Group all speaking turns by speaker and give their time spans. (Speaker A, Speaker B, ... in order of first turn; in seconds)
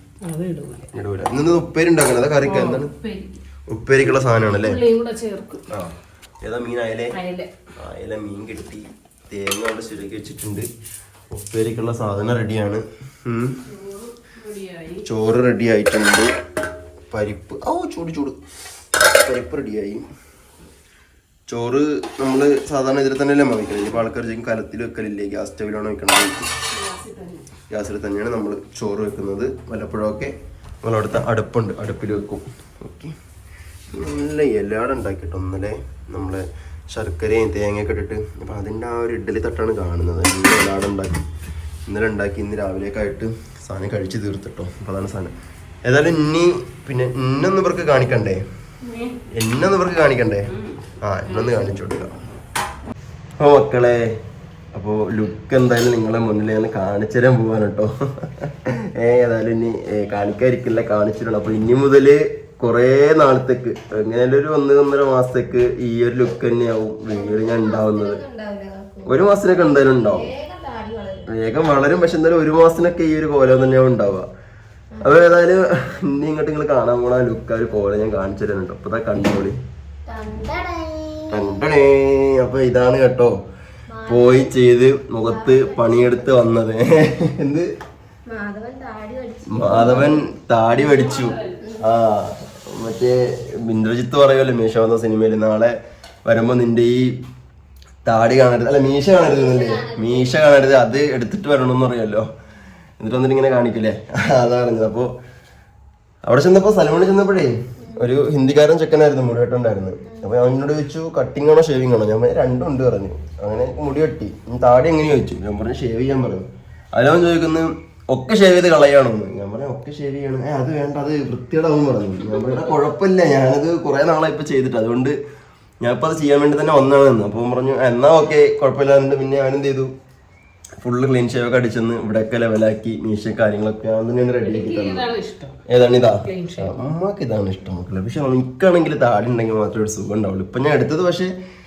Speaker A: 0.2-0.9, 2.4-3.4, 4.0-5.7, 7.1-7.5, 13.7-15.0, 26.7-27.5, 48.9-49.2, 50.5-51.8, 90.7-91.6, 134.3-135.6, 136.2-136.8
Speaker B: 0.9-2.9, 3.7-4.8, 5.7-7.1, 7.8-10.7, 11.3-13.6, 15.0-16.3, 17.1-18.4, 19.1-20.1, 21.5-26.5, 27.7-33.1, 33.9-41.2, 41.9-45.3, 45.8-48.4, 49.3-50.5, 51.0-52.2, 53.4-54.1, 54.7-68.2, 69.0-70.3, 71.3-74.3, 75.0-79.6, 81.3-83.4, 84.1-87.7, 89.5-97.2, 98.0-102.3, 103.0-105.1, 106.2-125.2, 125.8-129.9, 130.8-135.0, 135.7-141.3
Speaker C: 67.1-71.3, 74.9-75.3, 80.0-81.6, 83.9-84.5, 85.2-86.3, 88.3-90.2, 99.1-100.7, 107.8-108.1